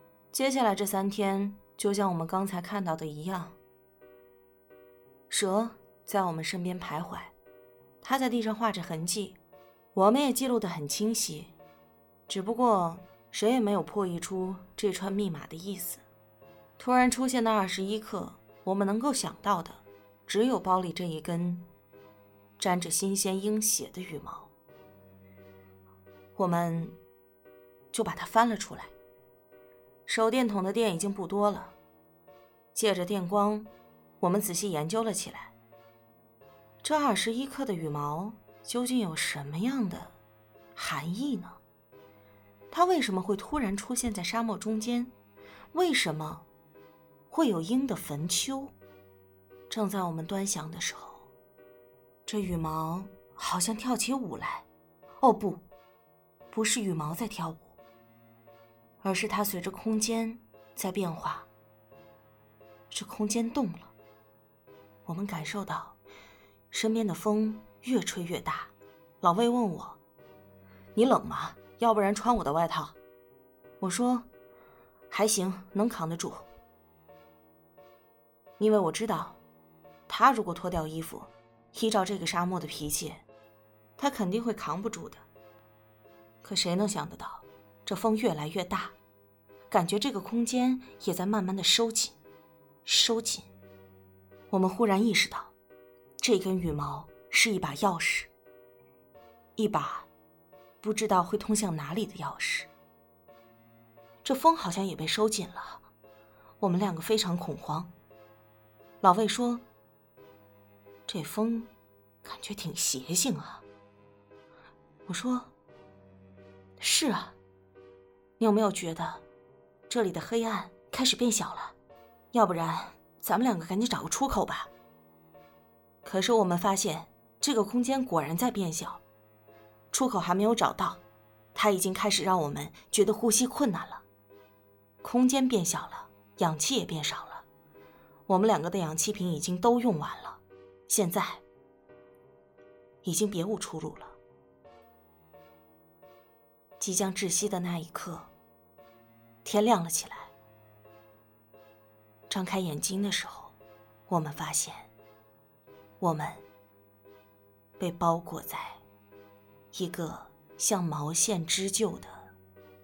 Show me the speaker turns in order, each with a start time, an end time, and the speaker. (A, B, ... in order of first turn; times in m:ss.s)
0:00.3-0:03.6 A
0:05.3-0:07.3 A
0:08.0-0:09.4 A
0:09.9-0:11.5 A
0:12.3-0:16.0 A
0:16.8-0:21.7 A
0:22.6-0:24.5 A
0:26.4-0:27.0 A
0:27.9-0:28.9 A
0:30.1-0:31.8 A
0:32.8-0:35.5 A
0:36.8-0:40.2 A
0:40.8-0:41.6 A
0:42.7-0:45.1 A
0:45.7-0:46.5 A
0:47.3-0:48.7 A
0:49.7-0:51.3 A
0:52.3-0:54.7 A
0:55.2-0:55.6 A
0:56.5-0:57.7 A
0:59.0-1:01.5 A
1:02.9-1:03.9 A
1:05.1-1:06.0 A
1:06.7-1:10.0 A
1:11.0-1:13.0 A
1:13.8-1:14.3 A
1:15.1-1:16.5 A
1:18.6-1:19.4 A
1:20.1-1:23.2 A
1:24.0-1:25.2 A
1:26.4-1:29.0 A
1:29.7-1:32.2 A
1:32.8-1:33.5 A
1:34.5-1:35.5 A
1:36.2-1:38.3 A
1:39.6-1:40.1 A
1:40.8-1:42.7 A
1:44.2-1:45.9 A
1:46.6-1:47.9 A
1:49.0-1:49.7 A
1:51.1-1:51.7 A
1:52.2-1:53.6 A
1:55.1-1:55.5 A
1:56.8-1:57.4 A
1:58.4-1:59.2 A
1:59.9-2:01.8 A
2:02.3-2:04.7 A
2:06.0-2:09.0 A
2:09.9-2:11.0 A
2:11.6-2:14.0 A
2:15.0-2:17.4 A
2:18.3-2:21.4 A
2:23.0-2:24.2 A
2:26.8-2:28.3 A
2:29.4-2:30.3 A
2:32.3-2:33.6 A
2:34.1-2:34.9 A
2:36.0-2:36.4 A
2:37.8-2:38.8 A
2:39.7-2:42.3 A